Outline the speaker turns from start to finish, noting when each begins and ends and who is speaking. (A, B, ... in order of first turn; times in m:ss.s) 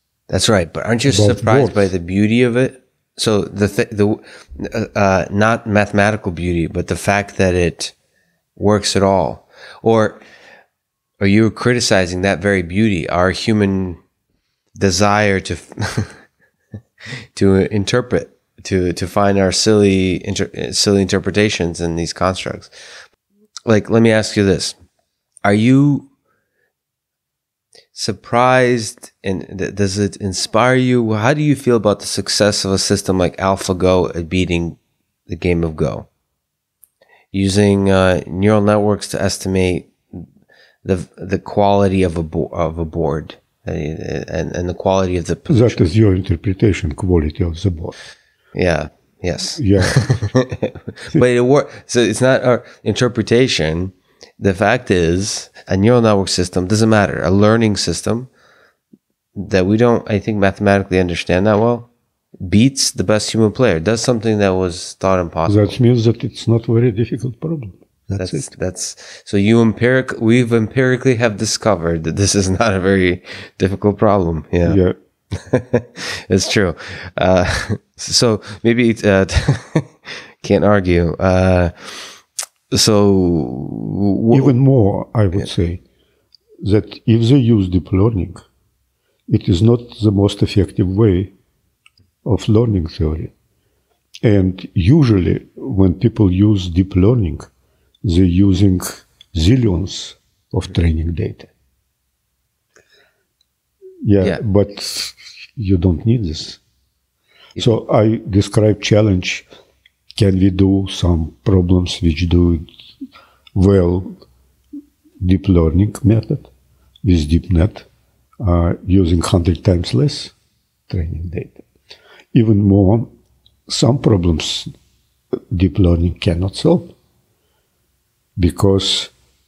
0:00.3-0:07.9 A
0:01.1-0:01.9 B
0:08.6-0:10.2 A
0:11.2-0:14.0 A
0:14.8-0:16.2 A
0:17.4-0:22.7 A
0:23.7-0:24.8 A
0:25.4-0:26.1 A
0:27.9-0:36.1 A
0:37.3-0:40.3 A
0:40.8-0:45.9 A
0:45.5-0:48.0 B
0:48.5-0:58.3 A
0:49.6-0:50.2 B
0:59.4-1:05.8 A
1:05.5-1:08.5 B
1:08.2-1:14.8 A
1:14.6-1:15.0 B
1:15.3-1:22.2 A
1:22.7-1:24.6 A
1:24.3-1:25.8 B
1:26.6-1:28.4 B
1:29.3-1:31.3 B
1:32.2-1:33.3 B
1:34.2-1:37.5 B
1:38.0-1:41.5 B
1:44.0-1:46.6 B
1:47.6-1:49.5 B
1:50.2-1:52.7 B
1:53.5-1:54.2 B
1:55.2-1:56.5 B
1:57.0-1:57.9 B
1:58.4-2:00.3 B
2:00.9-2:01.6 B
2:02.3-2:03.1 B
2:03.7-2:04.7 B
2:05.4-2:06.9 B
2:08.4-2:09.1 B